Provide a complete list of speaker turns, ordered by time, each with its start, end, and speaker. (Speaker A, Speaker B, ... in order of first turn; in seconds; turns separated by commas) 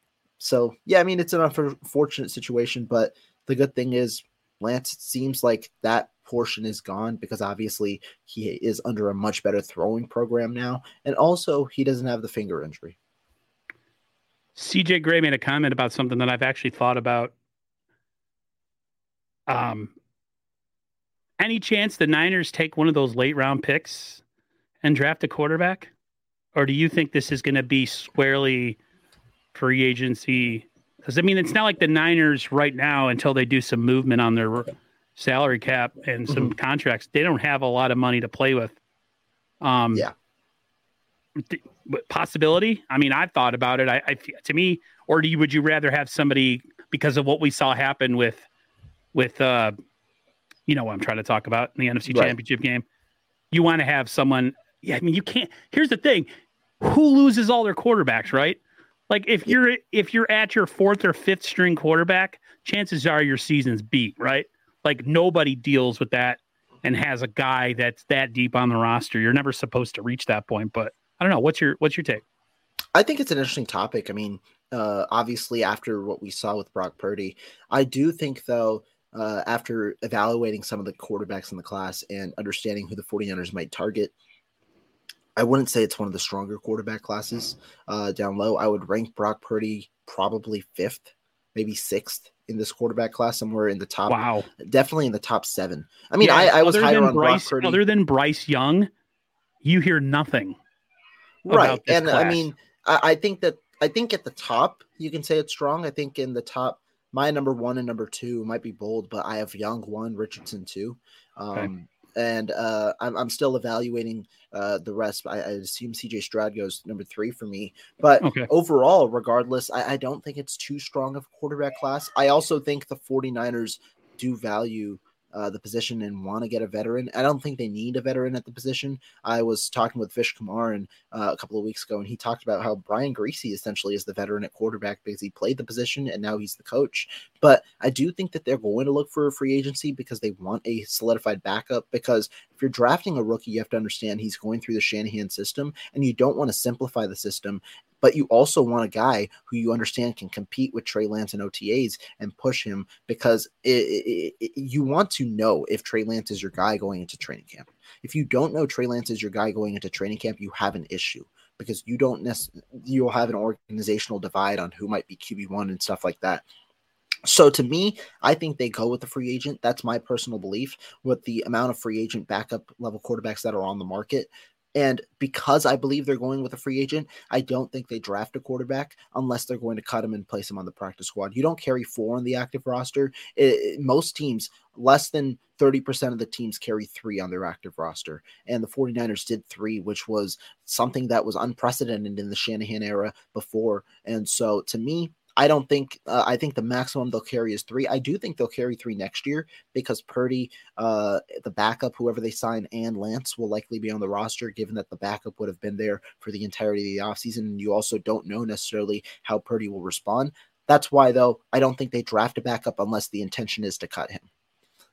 Speaker A: 0.4-12.9, Speaker B: 14.6-17.3, Speaker B: 19.5-19.9, Speaker B: 21.4-24.2, Speaker B: 24.8-25.9, Speaker B: 26.5-28.8, Speaker B: 29.5-38.8, Speaker B: 39.6-40.1, Speaker B: 41.4-48.5, Speaker B: 49.1-49.7, Speaker B: 50.7-52.8, Speaker A: 52.1-52.3, Speaker B: 53.5-56.3, Speaker B: 56.8-58.6, Speaker B: 59.1-72.2, Speaker A: 72.9-84.1, Speaker A: 85.3-97.8, Speaker B: 94.1-94.5, Speaker B: 96.2-98.9, Speaker B: 99.6-100.5, Speaker A: 101.4-166.4, Speaker B: 101.5-102.5, Speaker B: 118.2-118.5, Speaker A: 167.2-214.2